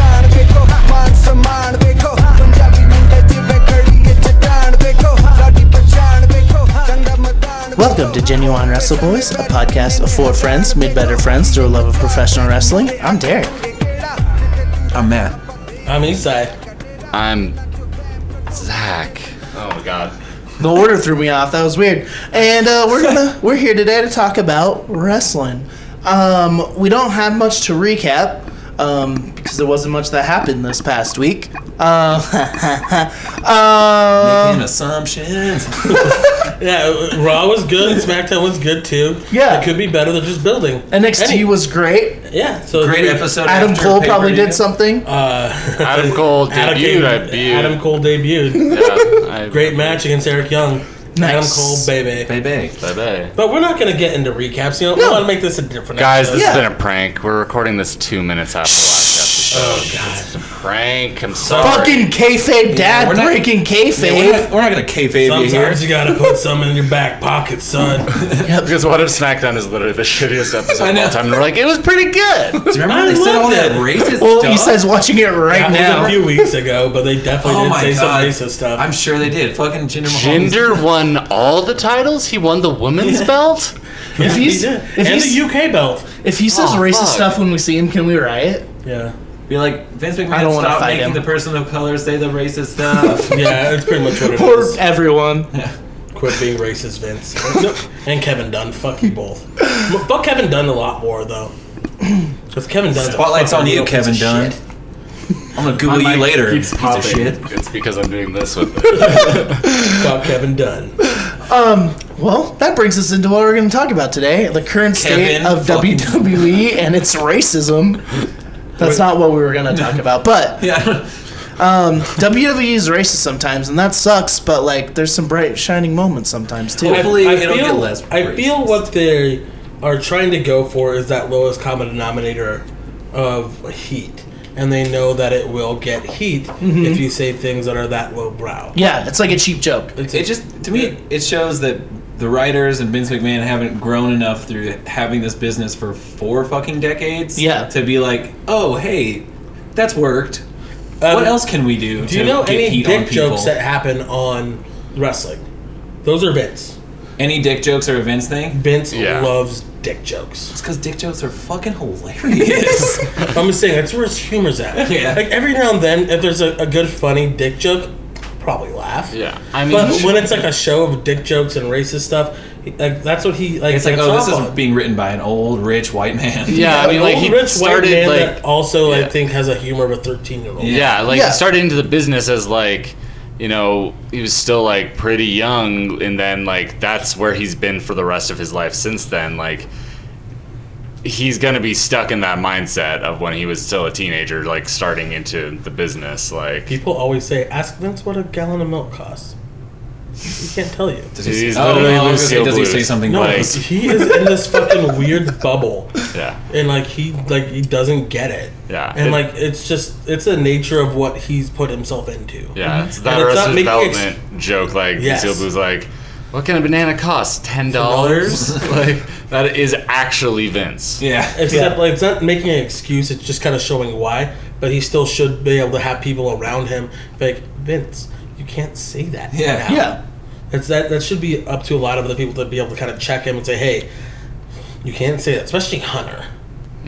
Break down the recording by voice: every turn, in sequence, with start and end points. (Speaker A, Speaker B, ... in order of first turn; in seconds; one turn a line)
Speaker A: 7.7-13.6
Speaker B: 14.9-15.4
Speaker C: 15.8-16.5
Speaker D: 17.1-17.6
Speaker D: 18.5-20.1
Speaker A: 20.6-34.7
Speaker B: 34.2-36.3
Speaker C: 35.9-41.5
Speaker A: 39.3-39.7
Speaker A: 40.9-42.2
Speaker C: 42.2-43.4
Speaker B: 42.7-44.6
Speaker A: 43.4-45.0
Speaker C: 45.0-52.3
Speaker D: 45.8-47.8
Speaker D: 48.6-50.0
Speaker A: 51.1-51.9
Speaker B: 52.2-52.8
Speaker D: 52.8-53.3
Speaker C: 53.3-56.6
Speaker A: 54.9-55.2
Speaker D: 56.0-62.1
Speaker A: 56.3-56.7
Speaker C: 59.5-60.3
Speaker A: 61.5-64.5
Speaker B: 62.7-65.9
Speaker C: 65.2-68.1
Speaker D: 68.3-72.4
Speaker A: 68.4-68.7
Speaker B: 70.8-71.2
Speaker A: 72.0-72.9
Speaker B: 72.7-74.8
Speaker C: 72.8-73.9
Speaker A: 74.1-76.5
Speaker C: 75.5-78.9
Speaker B: 75.6-76.2
Speaker B: 77.4-80.8
Speaker D: 80.0-83.7
Speaker C: 83.0-83.3
Speaker C: 84.2-86.1
Speaker A: 84.2-85.4
Speaker A: 86.2-88.6
Speaker D: 86.5-87.4
Speaker C: 88.8-89.1
Speaker B: 89.5-93.5
Speaker A: 90.3-91.2
Speaker C: 93.2-94.8
Speaker A: 94.1-95.5
Speaker C: 96.1-101.5
Speaker C: 102.5-104.6
Speaker B: 102.9-104.6
Speaker B: 105.5-107.4
Speaker D: 105.8-109.6
Speaker C: 109.0-111.0
Speaker A: 111.3-118.2
Speaker B: 114.9-116.3
Speaker A: 118.8-120.7
Speaker B: 119.7-120.0
Speaker B: 120.6-121.1
Speaker A: 121.6-127.2
Speaker B: 126.8-128.7
Speaker C: 126.9-138.8
Speaker A: 136.6-137.0
Speaker A: 138.7-139.9
Speaker C: 139.9-140.9
Speaker B: 140.1-150.4
Speaker A: 147.3-147.7
Speaker C: 151.0-155.4
Speaker B: 151.1-153.5
Speaker C: 156.0-156.8
Speaker B: 157.2-158.6
Speaker C: 158.5-160.5
Speaker D: 158.9-159.3
Speaker B: 160.5-163.3
Speaker C: 163.2-169.1
Speaker B: 164.8-165.2
Speaker D: 169.1-170.3
Speaker C: 169.7-174.6
Speaker B: 173.7-176.8
Speaker D: 176.5-179.1
Speaker C: 176.5-180.9
Speaker A: 176.6-177.0
Speaker B: 180.6-180.9
Speaker D: 180.7-189.7
Speaker A: 181.1-181.4
Speaker D: 191.0-196.7
Speaker C: 196.7-199.3
Speaker C: 200.2-202.0
Speaker B: 201.1-203.6
Speaker D: 201.2-203.6
Speaker C: 203.0-214.1
Speaker D: 206.1-206.4
Speaker D: 208.7-209.2
Speaker D: 212.6-221.0
Speaker C: 214.9-215.4
Speaker C: 217.7-218.6
Speaker B: 221.0-221.6
Speaker C: 221.3-230.0
Speaker A: 221.5-221.8
Speaker B: 229.3-229.8
Speaker A: 229.7-230.0
Speaker C: 230.5-233.9
Speaker C: 234.8-236.3